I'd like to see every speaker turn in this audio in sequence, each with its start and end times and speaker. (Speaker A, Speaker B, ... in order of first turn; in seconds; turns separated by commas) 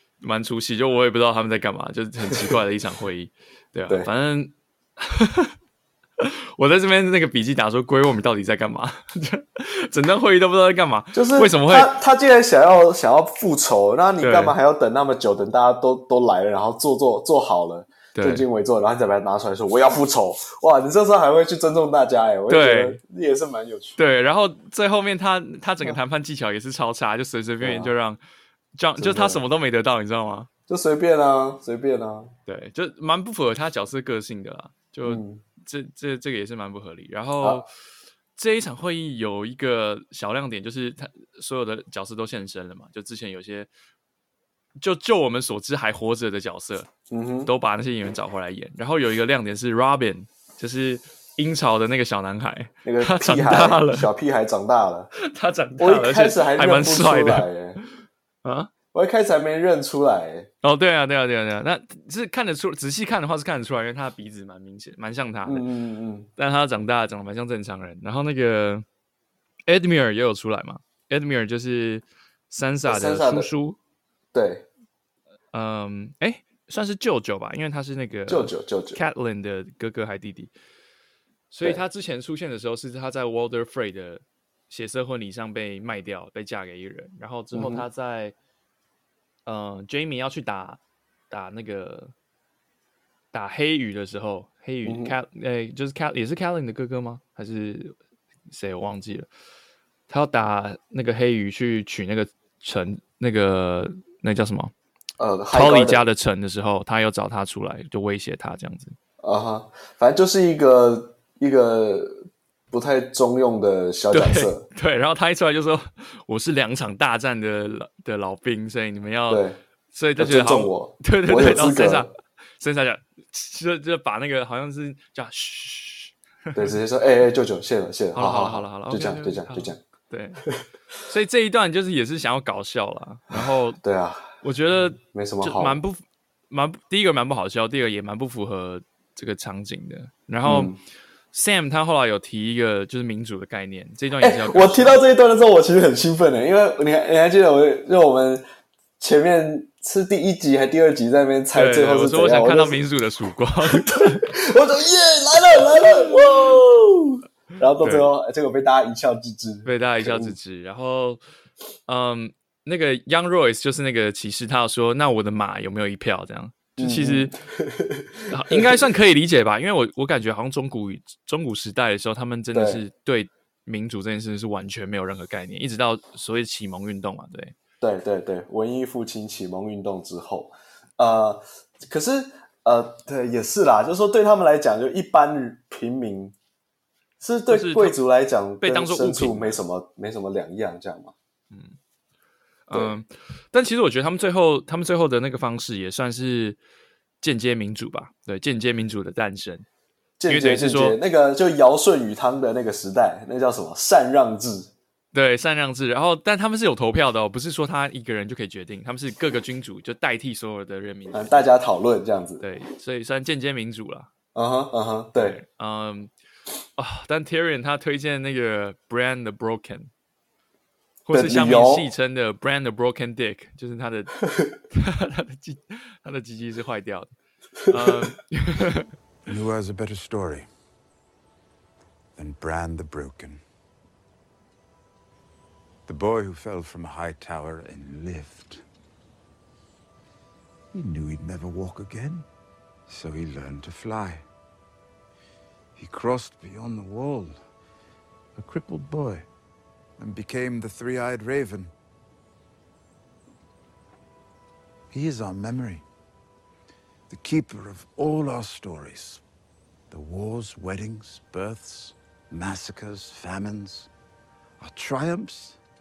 Speaker A: 0.2-5.5, Speaker A: 6.2-11.9, Speaker B: 11.1-24.0, Speaker A: 14.2-14.6, Speaker A: 18.1-18.4, Speaker A: 22.5-23.0, Speaker A: 24.0-28.2, Speaker B: 27.6-27.9, Speaker A: 28.8-30.5, Speaker B: 29.0-29.4, Speaker B: 30.7-32.3, Speaker A: 32.5-37.7, Speaker B: 35.1-35.4, Speaker B: 37.4-37.7, Speaker A: 38.4-43.7, Speaker A: 44.8-46.9, Speaker B: 47.1-47.5, Speaker A: 47.5-54.1, Speaker B: 52.9-55.1, Speaker A: 55.1-57.5, Speaker B: 55.8-57.8, Speaker A: 58.4-58.7, Speaker B: 58.9-60.5, Speaker A: 60.6-65.7, Speaker B: 65.5-66.3, Speaker A: 66.4-68.9, Speaker A: 69.7-73.8, Speaker B: 72.9-73.5, Speaker B: 74.3-74.7, Speaker A: 75.5-80.5, Speaker B: 78.3-79.0, Speaker A: 81.5-88.3, Speaker B: 87.5-87.8, Speaker A: 89.5-92.1, Speaker A: 93.3-98.0, Speaker B: 94.8-95.2, Speaker A: 98.5-99.3, Speaker A: 100.1-104.7, Speaker B: 105.2-106.0, Speaker A: 105.5-109.0, Speaker B: 109.2-114.7, Speaker A: 114.1-126.8, Speaker B: 119.3-119.6, Speaker B: 120.2-122.1, Speaker B: 126.5-129.8, Speaker A: 128.2-130.4, Speaker A: 131.1-133.8, Speaker B: 133.3-134.3, Speaker A: 134.4-140.7, Speaker B: 134.9-135.8, Speaker B: 140.4-140.8, Speaker A: 141.3-145.0, Speaker B: 144.2-148.4, Speaker B: 149.0-152.8, Speaker A: 151.5-154.3, Speaker B: 153.7-160.3, Speaker A: 155.7-156.2, Speaker A: 157.8-158.1, Speaker A: 159.7-161.2, Speaker A: 161.9-167.3, Speaker B: 166.8-168.9, Speaker A: 168.3-177.6, Speaker B: 172.5-172.8, Speaker B: 177.8-186.3, Speaker B: 187.2-191.1, Speaker A: 187.5-188.0, Speaker A: 188.6-189.6, Speaker A: 191.5-191.8, Speaker A: 192.7-196.6, Speaker A: 197.2-199.7, Speaker B: 200.2-204.7, Speaker A: 200.3-201.0, Speaker A: 205.1-211.5, Speaker B: 211.1-212.4, Speaker A: 212.4-214.1, Speaker B: 214.3-215.4, Speaker A: 215.2-216.1, Speaker A: 216.8-219.9, Speaker A: 221.1-224.2, Speaker B: 221.1-221.9, Speaker B: 224.2-224.5, Speaker A: 224.7-227.1, Speaker B: 227.6-228.2, Speaker A: 227.7-228.9, Speaker C: 229.3-230.5, Speaker C: 232.2-233.4, Speaker C: 235.9-238.6, Speaker C: 240.7-242.3, Speaker C: 242.9-244.2, Speaker C: 245.8-247.4, Speaker C: 248.4-249.3, Speaker C: 250.0-251.7, Speaker C: 254.9-255.8, Speaker C: 257.1-259.2, Speaker C: 259.9-263.9, Speaker C: 264.6-265.6